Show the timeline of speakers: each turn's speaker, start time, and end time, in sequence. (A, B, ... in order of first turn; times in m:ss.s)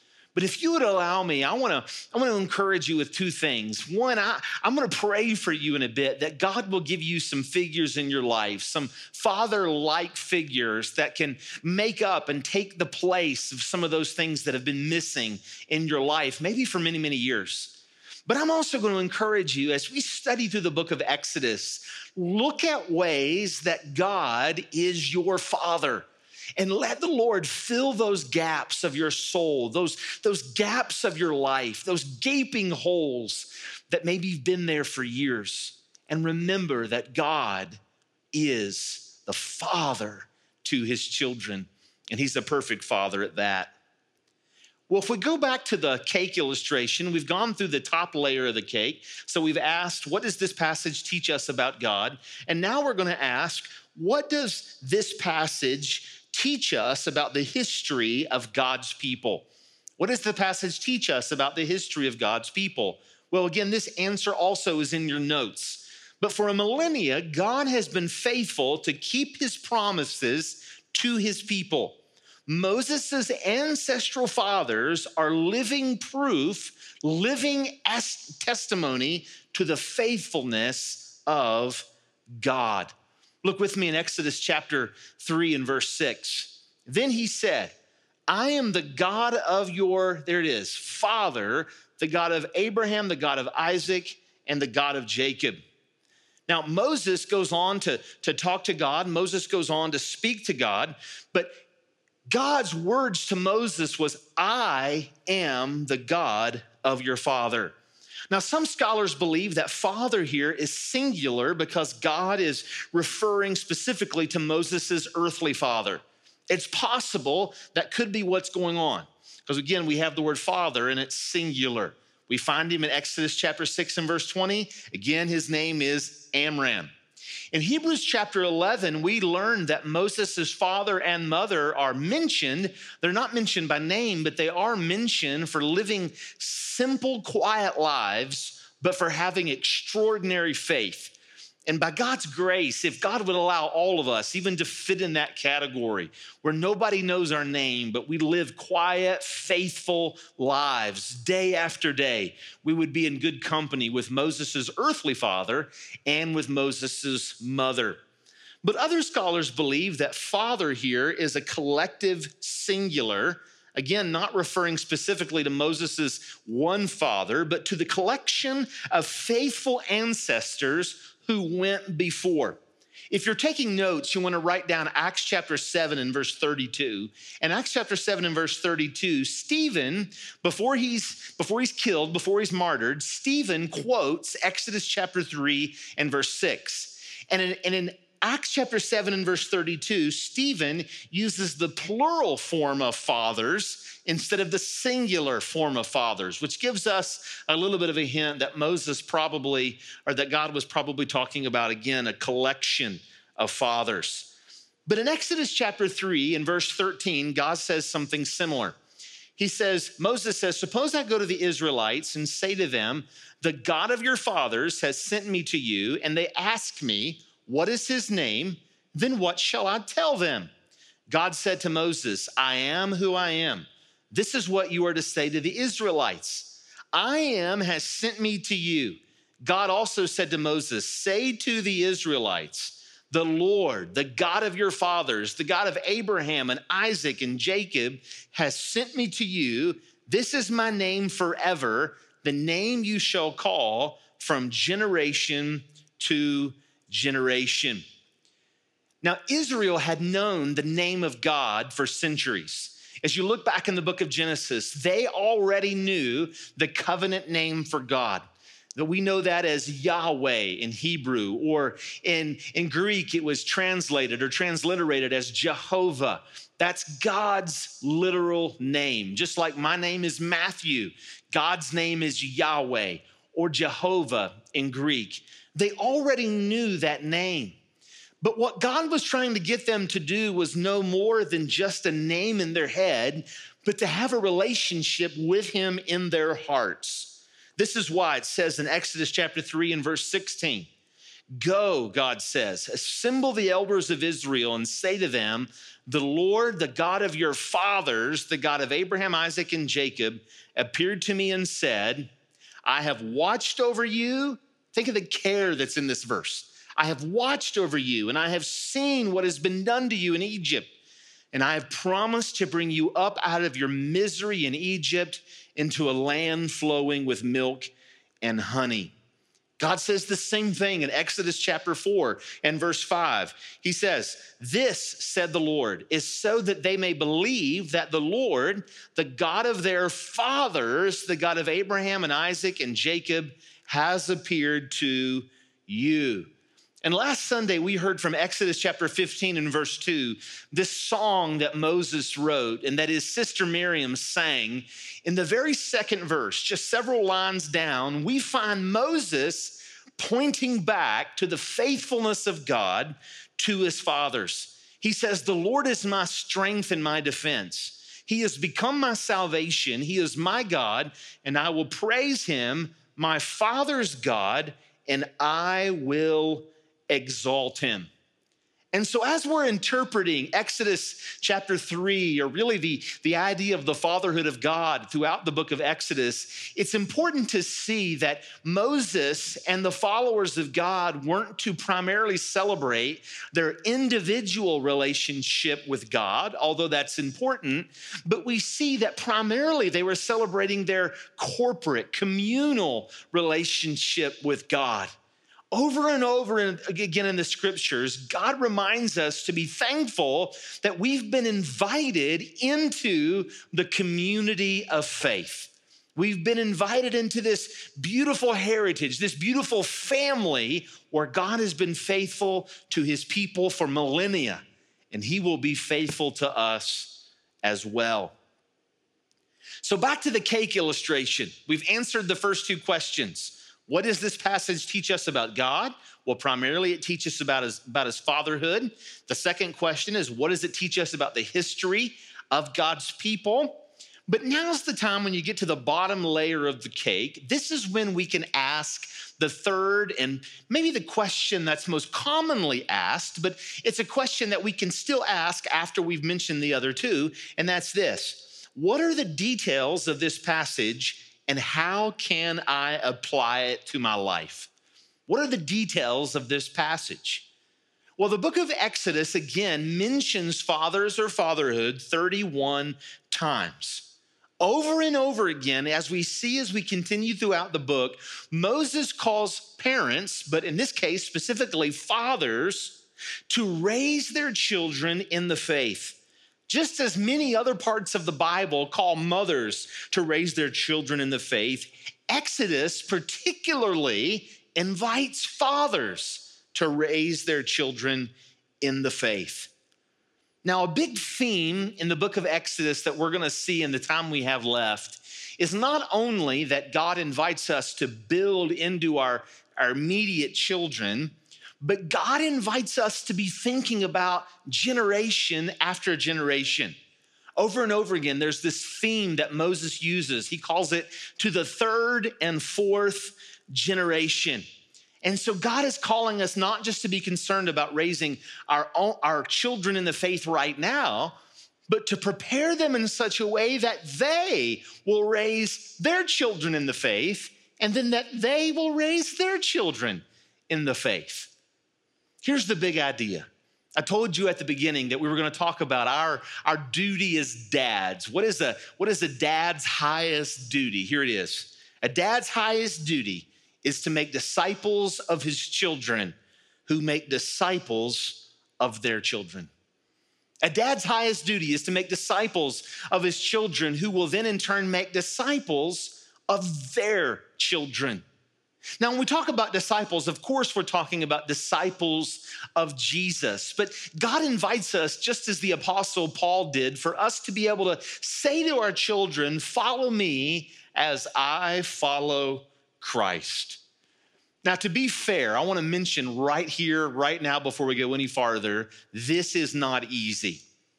0:00.4-0:37.8 A
0:38.3-0:43.7 A
0:44.9-0:59.5 A
1:00.0-1:22.9 A
1:23.4-1:27.7 A
1:28.3-1:35.6 A
1:36.5-1:41.6 A
1:42.3-1:47.8 A
1:48.3-2:06.9 A
2:07.5-2:21.2 A
2:21.7-2:38.0 A
2:38.6-2:52.6 A
2:53.1-3:24.3 A
3:24.9-3:28.8 A
3:29.4-3:40.5 A
3:41.1-4:07.8 A
4:09.0-4:18.2 A
4:18.8-4:37.6 A
4:38.2-4:50.7 A
4:51.4-5:02.1 A
5:02.7-5:10.7 A
5:11.3-5:18.9 A
5:19.6-5:36.3 A
5:36.8-6:07.9 A
6:08.7-6:34.9 A
6:35.5-6:58.2 A
6:59.6-7:34.5 A
7:35.1-7:37.3 A
7:38.0-7:43.9 A
7:44.4-8:09.5 A
8:10.4-8:26.8 A
8:27.4-8:34.4 A
8:35.0-8:41.2 A
8:41.7-8:51.3 A
8:52.2-9:06.2 A
9:06.7-9:09.5 A
9:10.4-9:18.0 A
9:18.8-9:33.6 A
9:34.4-9:40.4 A